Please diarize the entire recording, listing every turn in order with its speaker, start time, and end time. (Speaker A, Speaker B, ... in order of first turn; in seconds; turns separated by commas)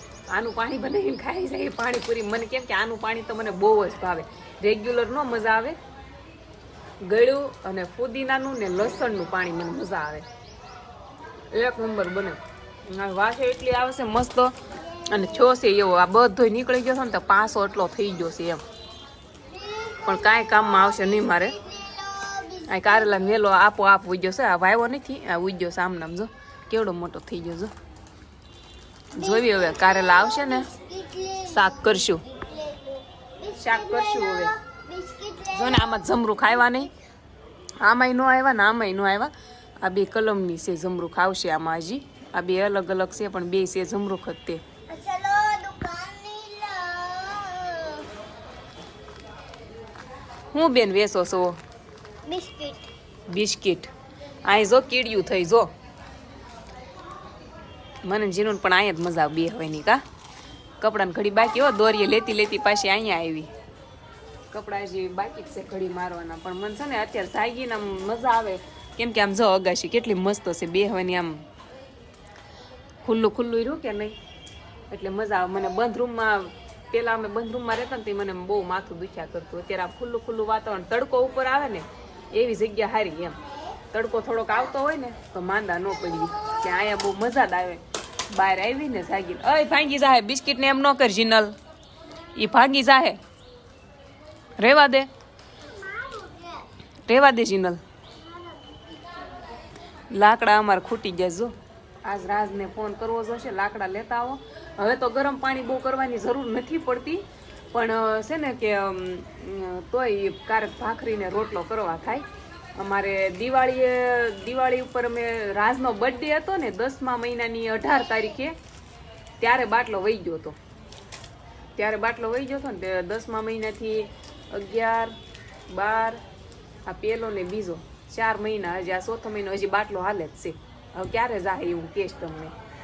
Speaker A: 0.3-5.8, Speaker A: 7.0-10.3, Speaker A: 11.5-12.4, Speaker A: 12.9-14.5, Speaker B: 14.9-15.5, Speaker A: 15.1-18.6, Speaker B: 19.5-23.4, Speaker A: 20.1-21.6, Speaker A: 22.7-27.7, Speaker A: 29.1-30.7, Speaker B: 29.2-36.9, Speaker A: 31.5-32.2, Speaker A: 33.6-34.5, Speaker A: 35.5-36.9, Speaker A: 37.8-44.6, Speaker B: 44.9-48.1, Speaker A: 50.5-51.6, Speaker B: 52.3-52.9, Speaker A: 53.3-53.9, Speaker A: 54.5-55.7, Speaker A: 58.0-60.0, Speaker A: 60.8-63.5, Speaker A: 64.5-71.4, Speaker A: 73.0-74.2, Speaker A: 74.9-83.4, Speaker A: 83.9-91.5, Speaker A: 92.4-93.2, Speaker A: 94.6-95.1, Speaker B: 95.7-96.7, Speaker A: 97.1-97.8, Speaker B: 98.2-99.6, Speaker A: 100.1-112.3, Speaker A: 112.8-118.6, Speaker A: 119.4-120.6, Speaker A: 121.8-125.1, Speaker A: 125.7-126.2, Speaker A: 126.9-132.5